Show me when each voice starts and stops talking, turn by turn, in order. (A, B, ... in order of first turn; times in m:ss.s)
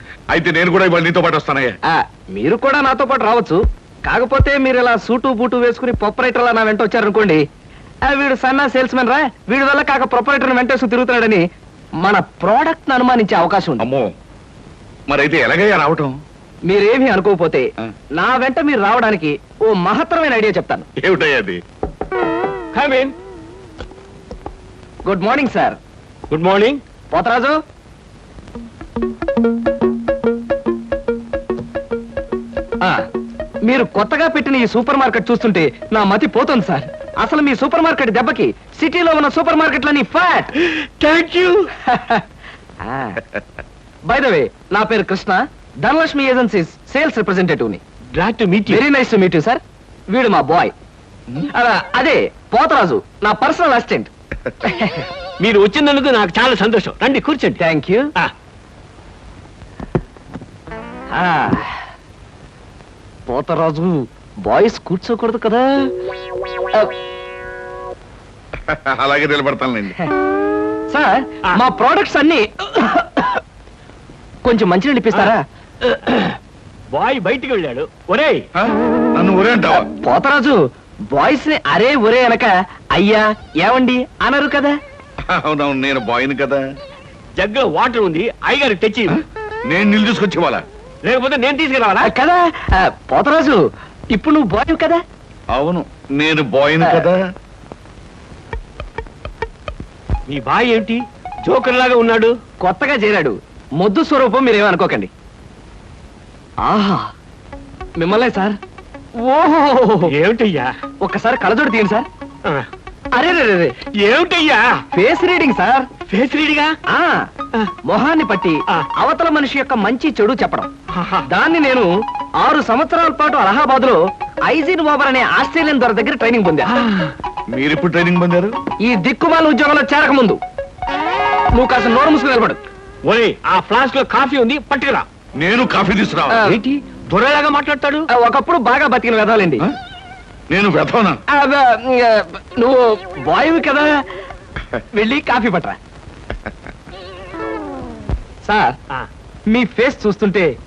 0:00.3-0:01.8 A
0:01.8-0:07.4 B
0:08.1-0:11.4 B
0:12.0-0:13.8 B
0:13.8-0:14.1 A
0:15.1-0:16.2 A
0:16.7-0:20.9 B
0:21.0-0:21.6 A
0:22.7-0:23.1 C
0:25.1-0:25.8 B
0:26.3-0:26.8 C
0:27.1-0:27.6 B
0:33.6-0:40.5 B
0:40.7-0:41.7 C
0:41.8-0:42.2 B
0:42.8-0:43.2 B
0:44.1-0:47.8 B
0:48.1-0:48.8 C
0:48.7-0:50.7 B
0:51.5-0:54.1 B
0:54.6-0:55.0 B
0:55.4-0:57.6 C
0:57.6-0:58.1 B
1:01.1-1:01.8 B
1:03.3-1:05.9 B
1:08.7-1:10.0 A
1:10.9-1:13.4 B
1:14.4-1:15.4 B
1:15.8-1:16.4 C
1:16.9-1:18.4 C
1:18.6-1:19.9 A
1:19.8-1:20.6 B
1:21.1-1:24.8 B
1:25.3-1:26.6 A
1:27.4-1:29.2 C
1:29.1-1:30.6 A
1:31.0-1:32.1 C
1:32.0-1:33.6 B
1:34.2-1:35.0 B
1:35.5-1:37.2 A
1:40.3-1:42.4 C
1:42.6-1:45.1 B
1:46.6-1:47.1 B
1:48.0-1:48.6 B
1:49.2-1:50.1 B
1:50.1-1:50.8 C
1:51.0-1:52.1 B
1:53.1-1:53.8 B
1:54.0-1:54.8 C
1:54.9-1:55.9 B
1:56.1-1:56.8 C
1:56.9-1:57.2 B
1:57.9-2:00.7 B
2:00.9-2:01.3 C
2:01.3-2:01.9 B
2:02.4-2:06.8 B
2:06.7-2:07.1 C
2:07.5-2:08.6 A
2:08.8-2:10.4 B
2:11.5-2:12.6 B
2:13.0-2:15.1 C
2:15.4-2:16.4 A
2:16.3-2:16.6 B
2:16.4-2:18.1 C
2:18.1-2:19.7 B
2:20.5-2:21.2 A
2:21.3-2:24.0 B
2:24.9-2:25.8 B
2:28.4-2:28.8 B
2:29.5-2:30.5 B